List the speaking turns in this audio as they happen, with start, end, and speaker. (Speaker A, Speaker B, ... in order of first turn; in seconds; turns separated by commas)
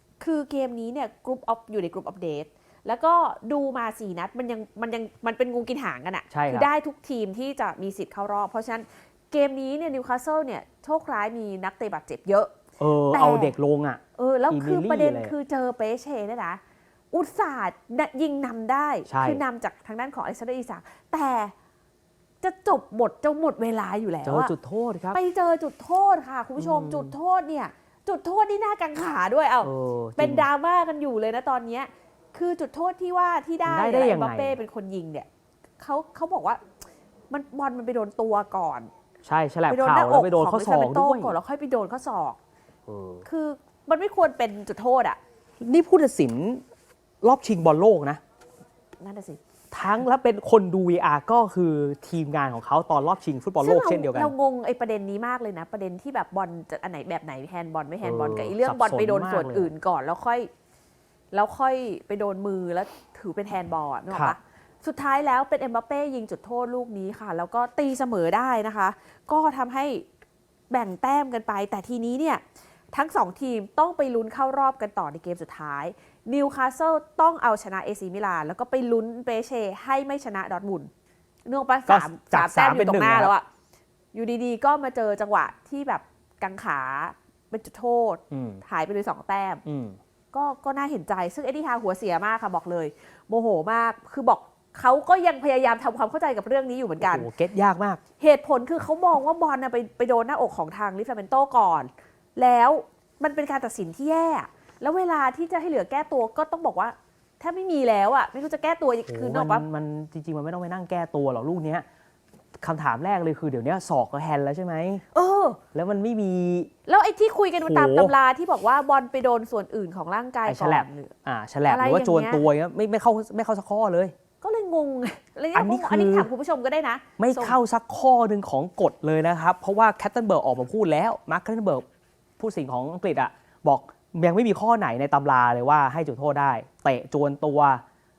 Speaker A: 0.2-12.5, Speaker B: 6.3-6.7, Speaker B: 12.8-15.3, Speaker A: 13.1-13.6, Speaker A: 14.2-16.6, Speaker A: 17.1-21.5, Speaker B: 19.1-19.4, Speaker A: 22.4-24.5, Speaker B: 24.2-25.2, Speaker A: 25.1-35.3, Speaker B: 26.6-27.1, Speaker B: 29.6-30.5, Speaker B: 33.7-34.6, Speaker A: 35.8-36.6, Speaker A: 37.3-38.9, Speaker B: 39.2-41.4, Speaker A: 39.7-42.4, Speaker B: 42.9-43.2, Speaker A: 43.2-45.2, Speaker B: 45.6-46.6, Speaker B: 47.2-48.2, Speaker A: 49.0-49.4, Speaker B: 49.7-54.3, Speaker A: 53.6-60.5, Speaker B: 58.0-59.7, Speaker A: 61.3-70.0, Speaker B: 64.1-64.3, Speaker A: 70.7-80.9, Speaker A: 81.5-83.5, Speaker B: 81.9-83.3, Speaker A: 84.1-89.6, Speaker B: 88.3-88.6, Speaker B: 89.6-90.0, Speaker A: 90.3-97.3, Speaker B: 97.0-98.0, Speaker A: 98.2-109.7, Speaker B: 109.0-111.8, Speaker B: 112.6-115.0, Speaker A: 115.1-115.6, Speaker B: 115.7-116.7, Speaker A: 116.9-121.1, Speaker B: 117.6-118.1, Speaker B: 120.5-124.1, Speaker A: 121.7-122.4, Speaker A: 124.4-127.6, Speaker B: 125.5-126.3, Speaker B: 127.2-131.8, Speaker B: 132.4-137.8